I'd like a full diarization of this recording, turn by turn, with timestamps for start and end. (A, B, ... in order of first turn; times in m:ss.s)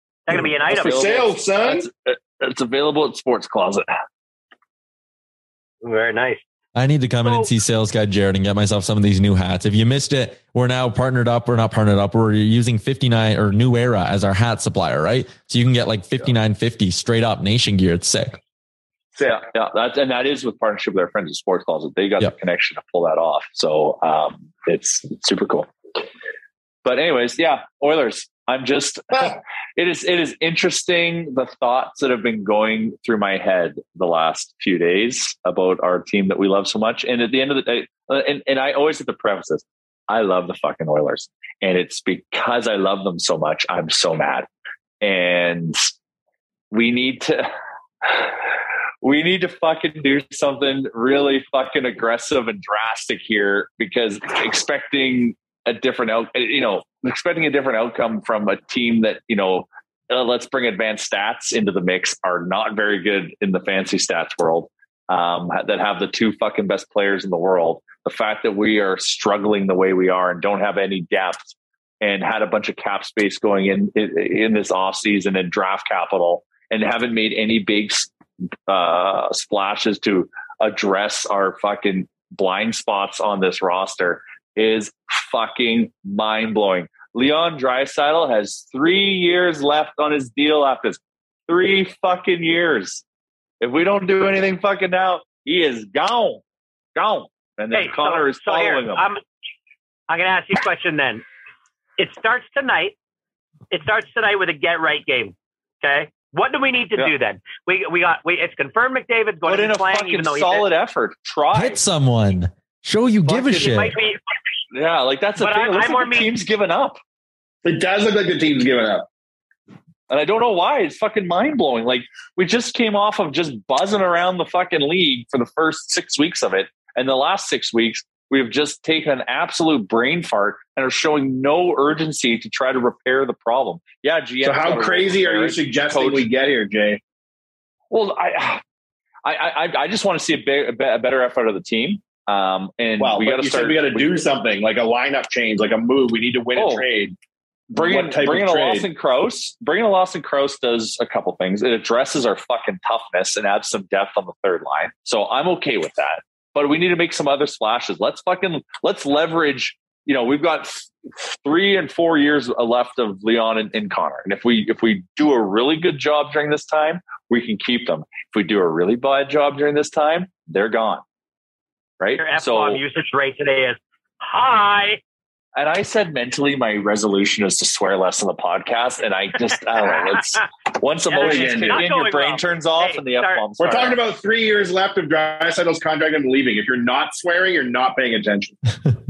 0:00.3-0:00.9 A
0:00.3-0:01.9 B
0:00.6-0:03.9 C
0:05.8-0:06.4 A
0:06.7-0:18.4 D
0:19.2-0:25.7 C
0:26.8-0:44.5 C
0:45.0-0:45.8 C
0:46.7-0:47.5 C
0:48.0-0:48.3 C
0:49.0-1:18.1 C
1:18.7-1:33.0 C
1:33.6-1:36.4 C
1:37.0-1:39.0 C
1:37.7-1:39.2 A
1:40.1-1:41.2 A
1:42.0-1:42.9 A
1:43.7-1:50.7 A
1:49.4-1:51.8 C
1:51.5-1:53.9 D
1:53.3-1:53.6 C
1:53.4-1:54.2 A
1:54.7-1:57.0 C
1:55.4-1:56.3 A
1:57.6-1:59.1 B
2:00.1-2:16.3 C
2:14.4-2:17.0 B
2:17.9-2:18.6 C
2:19.2-2:24.3 C
2:23.0-2:27.2 B
2:26.5-2:26.8 C
2:27.7-2:51.0 C
2:27.7-2:28.9 B
2:52.0-2:52.8 C
2:52.2-2:55.0 A
2:55.6-3:04.0 C
3:01.1-3:03.4 A
3:01.2-3:01.9 B
3:03.6-3:08.6 B